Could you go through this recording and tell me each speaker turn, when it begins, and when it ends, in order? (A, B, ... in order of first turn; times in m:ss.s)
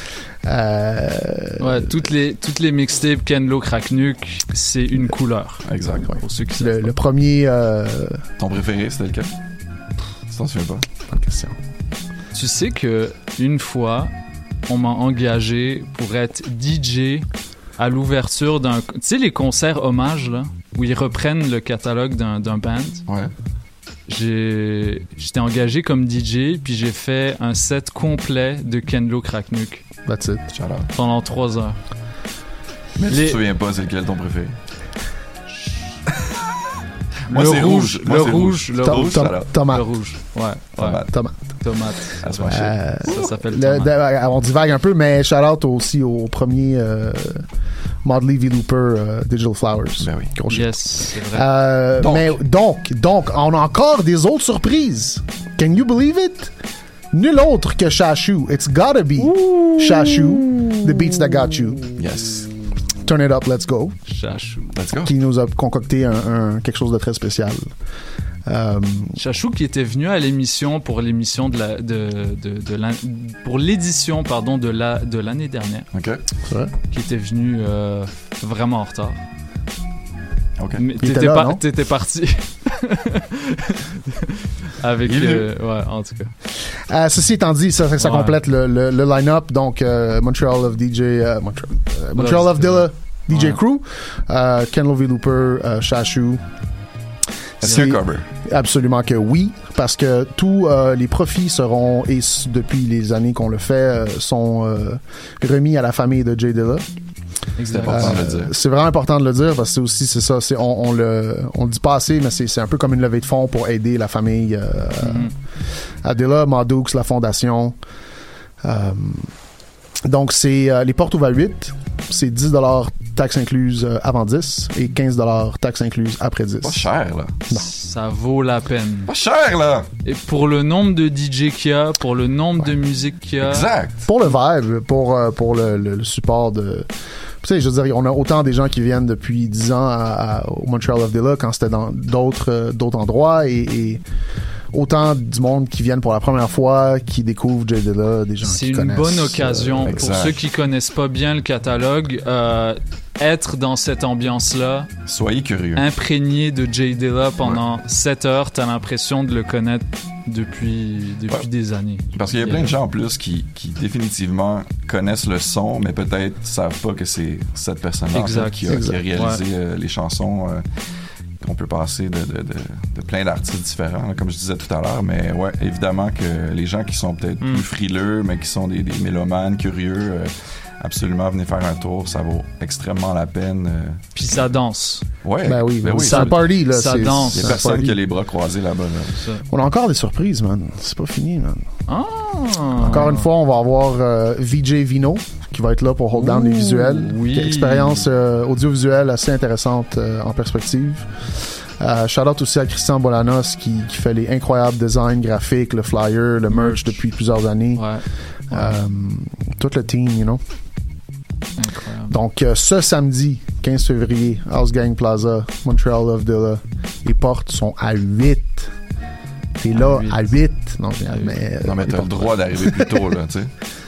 0:00.4-0:02.1 A
0:01.6-0:05.6 B
0:05.6-0:06.1 C
0:06.0-0:08.2 A
0:06.2-0:06.9 B
0:08.4-0:09.3 C
0:10.3-0:10.8 C
0:11.1-0:11.6 A
0:12.3-0:14.1 B
0:14.7-0:17.2 B
0:17.8-0:23.0 B
0:23.1-0:23.3 C
0:24.1-0:29.8 B
0:30.0-0:30.6 A
0:30.5-0:30.9 C
0:30.9-0:31.8 B
0:33.0-0:34.6 C
0:33.1-0:33.4 B
0:35.5-0:35.9 B
0:37.3-0:39.6 C
0:37.3-0:42.5 B
0:38.7-0:39.9 A
0:40.7-0:41.1 C
0:41.0-0:41.5 A
0:42.2-0:43.3 C
0:42.4-0:47.5 A
0:43.0-0:43.9 B
0:48.0-0:56.5 A
0:50.0-0:50.4 C
0:50.5-0:51.4 B
0:52.0-0:52.3 C
0:57.1-1:01.8 A
1:02.0-1:02.5 C
1:03.0-1:04.0 A
1:04.1-1:04.6 B
1:04.7-1:05.1 C
1:05.0-1:07.7 A
1:08.5-1:09.1 A
1:09.2-1:15.9 B
1:15.9-1:16.2 C
1:16.5-1:16.7 A
1:16.9-1:19.2 B
1:20.6-1:20.8 C
1:20.8-1:23.7 B
1:21.0-1:21.6 A
1:24.8-1:26.3 B
1:25.0-1:25.5 C
1:26.9-1:36.4 A
1:28.0-1:28.3 B
1:32.2-1:33.6 B
1:37.6-1:46.8 A
1:37.6-1:38.2 C
1:47.6-1:48.2 B
1:47.6-1:48.5 C
1:47.8-1:55.3 A
1:55.0-1:55.3 B
1:56.0-1:57.8 A
1:58.6-1:59.3 A
2:00.0-2:06.9 A
2:06.6-2:07.4 C
2:07.7-2:09.1 B
2:09.1-2:09.9 C
2:10.0-2:13.7 B
2:13.4-2:14.0 C
2:14.0-2:24.0 A
2:24.7-2:30.3 A
2:28.4-2:34.9 B
2:29.8-2:30.4 C
2:35.0-2:35.8 C
2:35.8-2:42.7 B
2:37.4-2:37.7 C
2:42.1-2:50.6 C
2:48.1-2:49.4 B
2:48.6-2:49.1 A
2:51.4-3:04.0 C
2:57.4-2:57.7 B
3:04.1-3:05.0 B
3:05.2-3:06.6 C
3:05.4-3:08.1 A
3:06.0-3:07.5 B
3:07.3-3:09.2 C
3:09.5-3:11.7 A
3:11.9-3:13.3 B
3:12.8-3:21.1 A
3:16.1-3:18.0 B
3:21.8-3:27.9 A
3:26.5-3:27.1 B
3:27.7-3:28.7 B
3:28.5-3:30.4 A
3:31.6-3:32.2 B
3:32.1-3:38.7 A
3:39.6-3:43.0 A
3:39.7-3:40.4 B
3:41.6-3:43.5 C